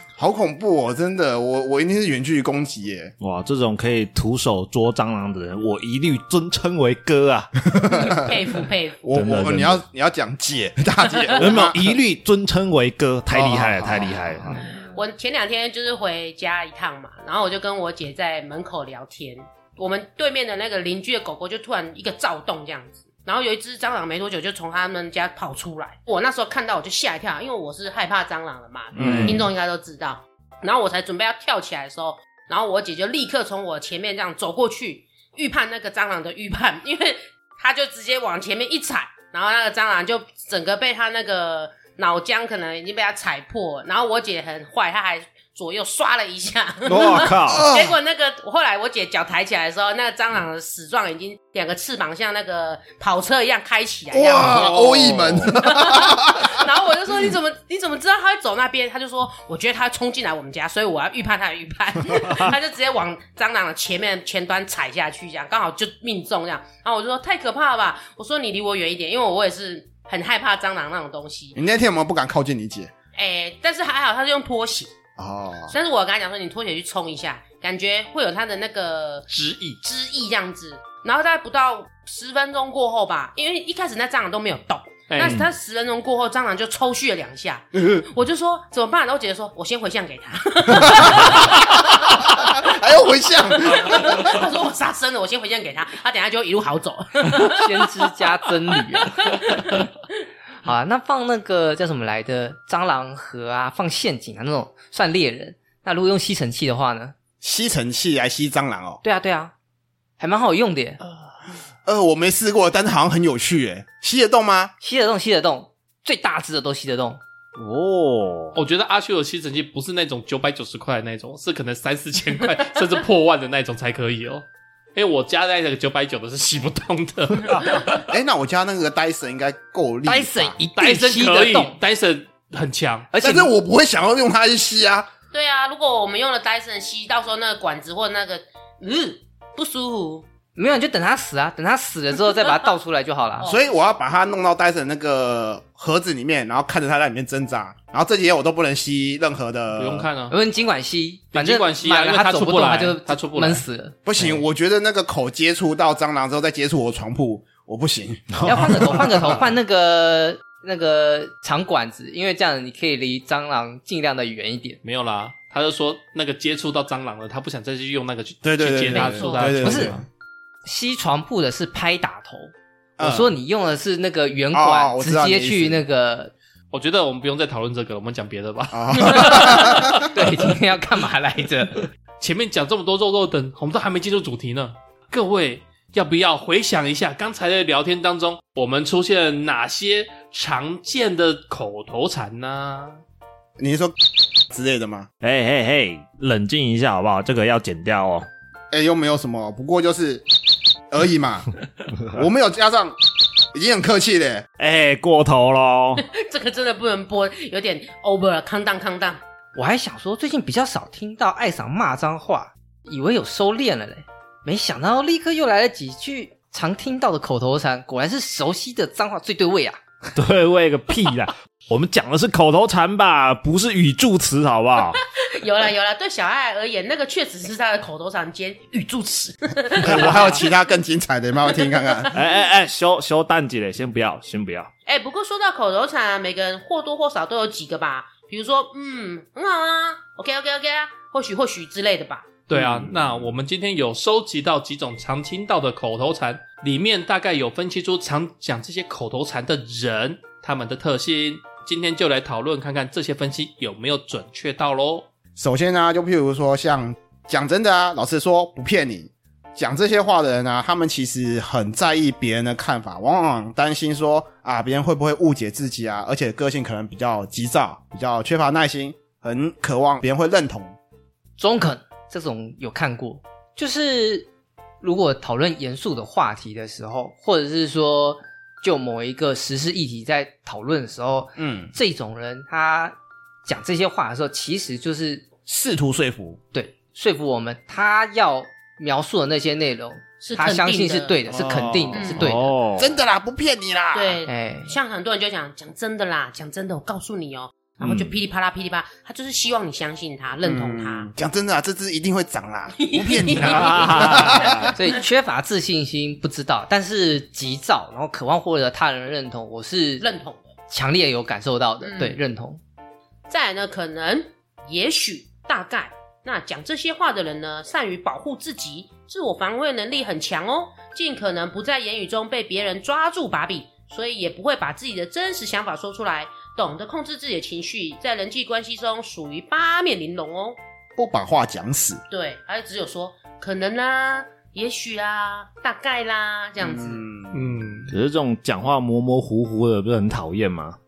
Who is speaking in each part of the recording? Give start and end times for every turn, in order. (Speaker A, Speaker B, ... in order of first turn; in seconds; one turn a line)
Speaker A: 0.2-3.1
Speaker B: 3.2-7.5
Speaker A: 7.7-8.3
Speaker C: 7.9-9.1
Speaker A: 9.0-11.9
Speaker B: 9.1-9.8
Speaker B: 11.4-14.6
Speaker A: 13.3-14.6
Speaker C: 14.8-71.6
Speaker B: 28.9-29.5
Speaker A: 29.0-29.5
Speaker B: 46.9-47.7
Speaker A: 47.5-48.0
Speaker A: 54.1-56.6
Speaker B: 54.4-55.6
Speaker A: 71.5-72.9
Speaker C: 73.2-74.9
Speaker A: 75.2-75.8
Speaker C: 75.7-79.3
Speaker D: 79.3-79.8
Speaker C: 79.8-92.7
Speaker D: 85.1-85.5
Speaker A: 87.8-88.0
Speaker A: 90.7-94.4
Speaker C: 93.6-97.9
Speaker E: 97.3-99.6
Speaker C: 99.0-99.9
Speaker E: 100.6-107.1
Speaker A: 107.4-109.0
Speaker E: 109.0-109.5
Speaker E: 110.2-111.0
Speaker A: 111.9-114.7
Speaker E: 114.8-117.2
Speaker B: 117.6-118.6
Speaker D: 118.5-128.1
Speaker A: 128.1-130.6
Speaker E: 130.1-131.8
Speaker D: 130.8-133.1
Speaker E: 133.1-133.5
Speaker A: 133.2-135.1
Speaker C: 135.3-140.3
Speaker E: 140.6-143.5
Speaker C: 143.4-143.8
Speaker A: 143.4-150.1
Speaker D: 149.8-150.4
Speaker E: 150.3-154.3
Speaker D: 151.3-153.7
Speaker A: 154.1-159.4
Speaker B: 158.3-158.9
Speaker E: 158.4-164.8
Speaker D: 164.8-170.0
Speaker A: 168.4-170.1
Speaker C: 168.9-169.6
Speaker E: 169.6-170.0
Speaker E: 170.7-176.3
Speaker A: 173.0-173.3
Speaker A: 174.5-175.8
Speaker D: 176.7-180.3
Speaker A: 178.7-180.1
Speaker E: 179.5-181.9
Speaker D: 182.2-193.0
Speaker A: 193.6-195.1
Speaker B: 195.2-198.3
Speaker A: 198.7-200.3
Speaker A: 200.9-201.5
Speaker A: 202.1-204.5
Speaker B: 204.6-206.0
Speaker C: 206.0-209.2
Speaker E: 209.6-219.8
Speaker B: 220.2-225.0
Speaker C: 225.2-230.5
Speaker A: 229.7-232.2
Speaker B: 232.1-234.7
Speaker C: 234.9-242.4
Speaker D: 242.5-255.1
Speaker A: 242.5-243.2
Speaker A: 255.4-270.8
Speaker E: 271.4-274.3
Speaker E: 274.8-285.3
Speaker A: 281.4-281.7
Speaker A: 285.5-286.4
Speaker E: 286.5-292.6
Speaker C: 290.2-291.2
Speaker A: 291.3-292.2
Speaker C: 291.9-292.2
Speaker B: 292.1-292.9
Speaker A: 292.8-294.2
Speaker C: 293.9-301.1
Speaker E: 294.3-294.7
Speaker B: 297.8-298.1
Speaker A: 300.4-304.7
Speaker C: 302.8-305.0
Speaker D: 303.4-304.4
Speaker B: 303.4-304.7
Speaker E: 304.7-310.1
Speaker C: 310.0-310.5
Speaker E: 310.7-312.6
Speaker C: 311.8-312.2
Speaker C: 313.3-330.6
Speaker A: 331.0-332.0
Speaker C: 332.1-337.0
Speaker A: 336.6-337.9
Speaker D: 337.3-337.9
Speaker B: 337.9-340.8